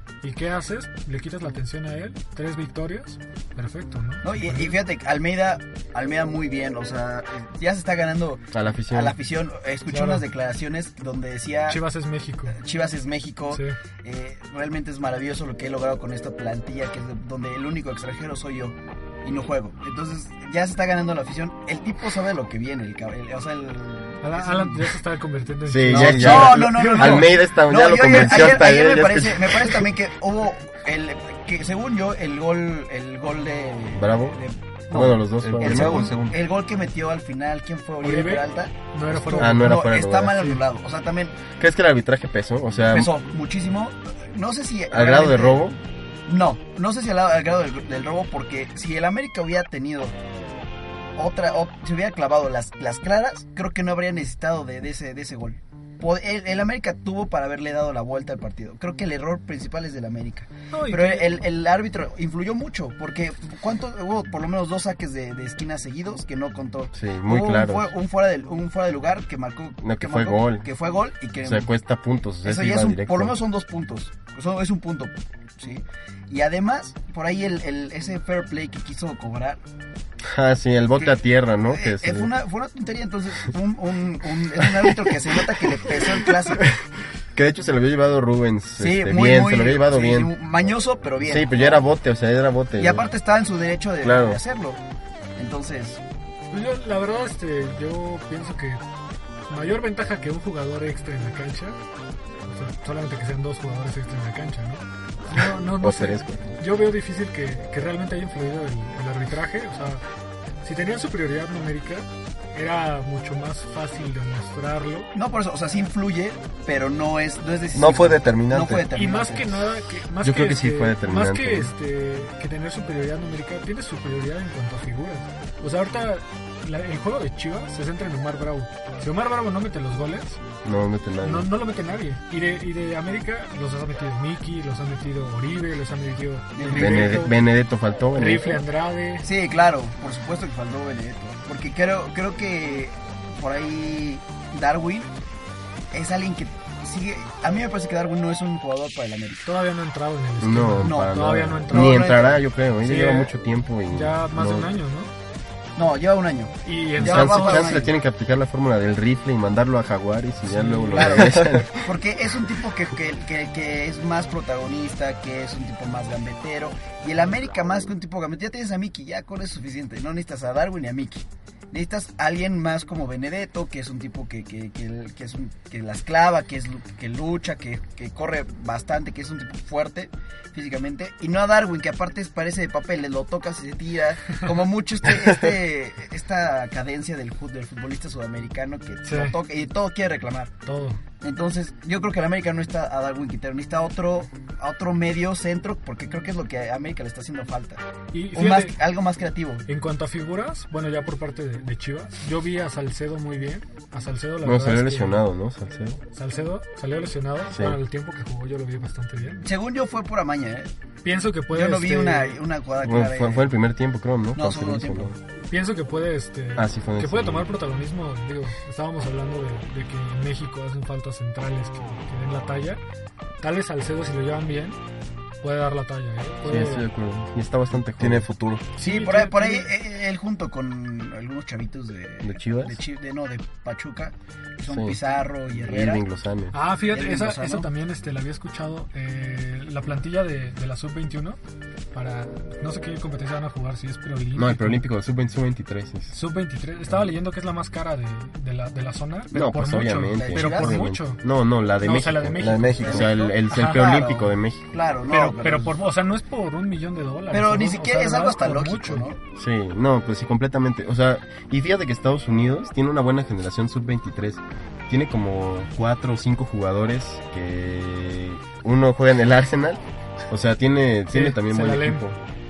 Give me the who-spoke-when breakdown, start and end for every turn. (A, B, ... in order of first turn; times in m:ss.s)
0:00.2-0:04.8 A
0:04.2-0:11.8 B
0:08.5-0:09.2 C
0:09.9-0:10.2 A
0:11.7-0:12.6 A
0:12.5-0:24.9 B
0:13.5-0:13.8 A
0:24.2-0:27.4 A
0:25.6-0:29.9 C
0:25.9-0:41.4 B
0:33.9-0:34.4 C
0:34.9-0:36.1 C
0:35.4-0:36.4 D
0:38.0-0:40.6 A
0:39.3-0:40.5 C
0:41.6-0:43.1 C
0:42.9-0:45.7 B
0:44.9-0:45.8 C
0:46.3-0:50.2 B
0:51.2-1:11.7 B
1:00.7-1:01.4 A
1:06.9-1:07.9 C
1:09.8-1:10.6 C
1:11.4-1:13.4 C
1:12.4-1:19.6 B
1:20.2-1:22.3 C
1:21.7-1:26.8 B
1:24.8-1:25.1 C
1:25.8-1:26.8 C
1:27.3-1:30.3 C
1:28.8-1:31.8 B
1:31.2-1:33.1 C
1:32.8-1:34.8 B
1:34.0-1:34.4 C
1:35.4-1:36.0 B
1:36.5-1:38.8 A
1:39.5-1:41.8 A
1:42.4-1:50.0 A
1:45.3-1:46.5 C
1:50.6-1:55.1 A
1:55.1-1:59.5 B
1:57.7-1:58.9 D
1:58.9-2:10.4 A
2:00.2-2:01.7 C
2:10.6-2:11.5 C
2:11.2-2:17.4 A
2:16.5-2:17.3 B
2:16.7-2:18.6 C
2:18.1-2:19.3 A
2:19.2-2:25.1 B
2:25.9-2:29.5 B
2:29.4-2:32.2 A
2:30.4-2:34.7 C
2:30.8-2:32.4 B
2:32.8-2:33.3 A
2:33.9-2:35.1 A
2:35.8-2:37.9 B
2:36.6-2:37.9 A
2:37.0-2:41.9 C
2:40.4-2:41.3 A
2:40.9-3:10.5 B
3:09.0-3:09.4 A
3:10.6-3:11.0 A
3:11.2-3:19.6 B
3:18.1-3:18.8 A
3:19.7-3:25.2 A
3:24.4-3:26.0 C
3:26.1-3:29.5 A
3:27.5-3:27.8 C
3:29.4-3:30.7 B
3:31.0-3:32.4 A
3:31.5-3:33.5 B
3:32.8-3:35.2 C
3:34.3-3:35.1 B
3:35.5-3:42.8 A
3:36.6-3:37.5 C
3:43.4-3:44.8 A
3:45.4-3:46.9 A
3:46.4-3:48.3 C
3:48.0-3:48.6 D
3:48.8-3:49.7 A
3:48.8-3:56.0 B
3:52.2-3:52.8 C
3:54.7-3:55.0 C
3:55.6-3:56.6 C
3:56.5-4:01.4 A
3:56.9-3:57.7 B
4:01.9-4:04.8 A
4:04.3-4:06.1 C
4:06.1-4:11.2 A
4:09.3-4:14.7 C
4:10.2-4:10.8 B
4:11.8-4:13.8 A
4:12.6-4:15.8 B
4:15.1-4:19.1 A
4:17.3-4:19.2 B
4:19.4-4:32.2 C
4:31.1-4:32.0 A